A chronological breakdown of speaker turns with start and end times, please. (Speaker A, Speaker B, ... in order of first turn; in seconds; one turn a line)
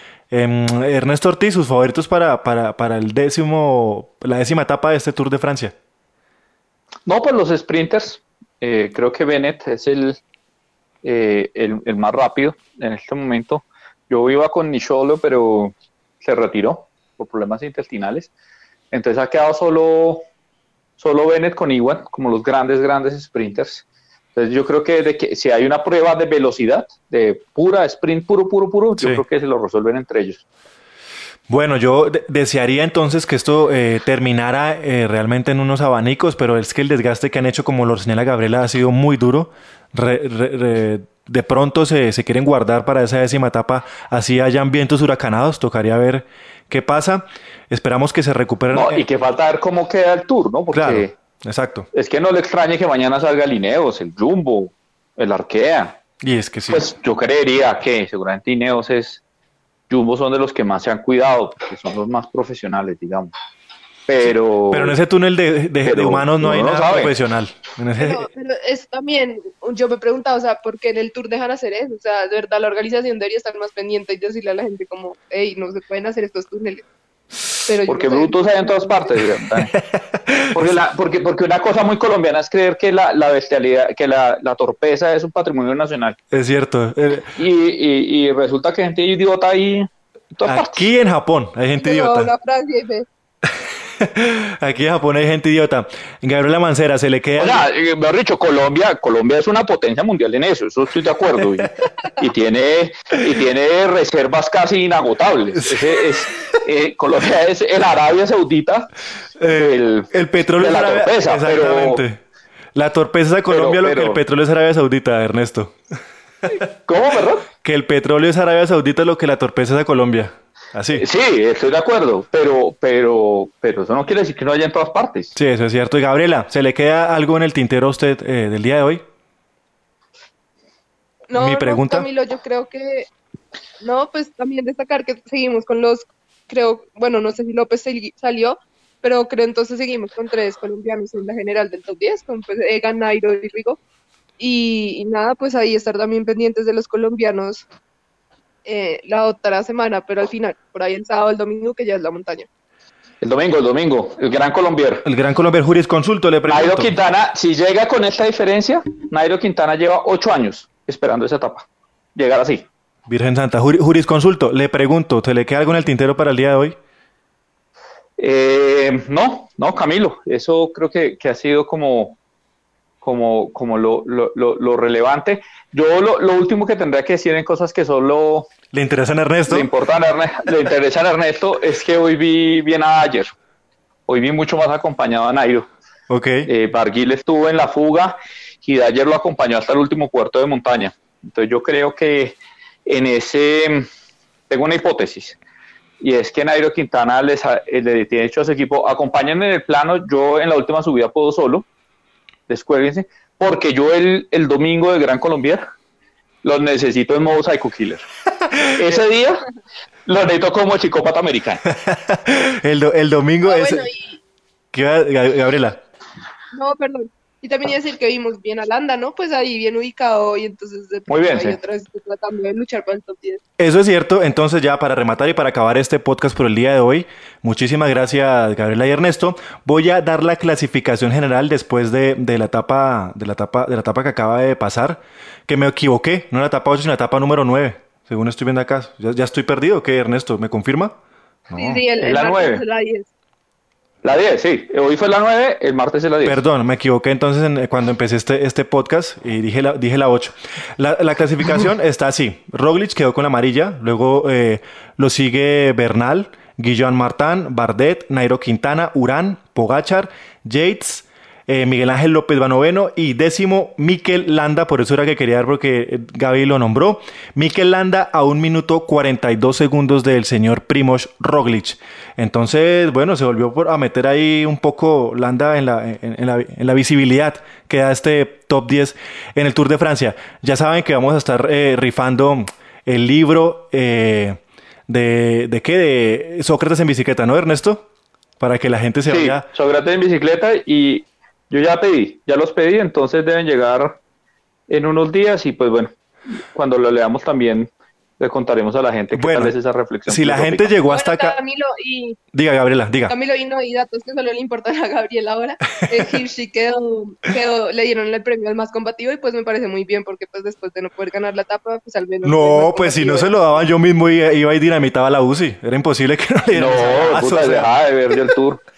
Speaker A: 0.3-5.7
Speaker B: 7.0-10.2
Speaker B: 11.0-18.3
Speaker B: 18.9-20.2
Speaker B: 21.0-23.8
Speaker B: 24.4-30.4
Speaker A: 29.0-29.2
Speaker A: 31.5-49.0
Speaker B: 48.7-51.1
Speaker A: 50.7-51.9
Speaker B: 51.9-56.0
Speaker A: 56.2-56.8
Speaker B: 56.7-59.2
Speaker B: 59.9-63.3
Speaker B: 64.1-65.0
Speaker A: 64.2-68.3
Speaker B: 65.8-67.2
Speaker C: 68.0-76.8
Speaker C: 77.7-79.1
Speaker B: 77.9-79.8
Speaker A: 79.9-80.6
Speaker B: 80.5-86.2
Speaker A: 86.3-87.4
Speaker B: 87.2-90.9
Speaker A: 90.5-92.3
Speaker C: 91.8-93.1
Speaker A: 94.0-97.6
Speaker B: 97.4-108.9
Speaker A: 105.6-106.0
Speaker A: 109.4-112.2
Speaker B: 109.4-112.0
Speaker A: 112.7-115.8
Speaker B: 113.5-114.2
Speaker B: 116.9-117.5
Speaker A: 117.6-121.0
Speaker B: 120.9-125.3
Speaker A: 125.3-129.0
Speaker C: 131.3-133.1
Speaker A: 131.3-132.1
Speaker C: 133.8-143.8
Speaker C: 144.4-147.6
Speaker C: 148.6-152.5
Speaker B: 153.2-155.1
Speaker A: 155.0-156.9
Speaker B: 156.5-162.7
Speaker A: 163.1-166.8
Speaker B: 168.2-172.2
Speaker B: 173.0-178.5
Speaker A: 178.7-179.7
Speaker B: 179.5-183.3
Speaker B: 184.1-185.7
Speaker A: 186.1-186.5
Speaker B: 186.4-193.9
Speaker B: 194.5-195.4
Speaker B: 196.0-201.7
Speaker B: 202.5-205.6
Speaker B: 206.4-208.0
Speaker B: 208.7-209.4
Speaker B: 210.1-211.6
Speaker A: 211.7-213.9
Speaker C: 213.4-214.2
Speaker A: 214.7-215.8
Speaker C: 216.5-223.4
Speaker B: 221.1-221.6
Speaker A: 223.6-240.9
Speaker A: 241.5-241.8
Speaker C: 241.6-243.1
Speaker B: 242.0-242.6
Speaker B: 244.0-246.4
Speaker A: 246.2-287.8
Speaker A: 288.4-289.4
Speaker B: 289.1-294.0
Speaker B: 294.7-300.7
Speaker A: 299.1-299.5
Speaker A: 300.1-301.4
Speaker C: 300.9-302.2
Speaker A: 302.3-303.1
Speaker C: 303.1-313.3
Speaker A: 312.2-317.7
Speaker B: 316.5-318.6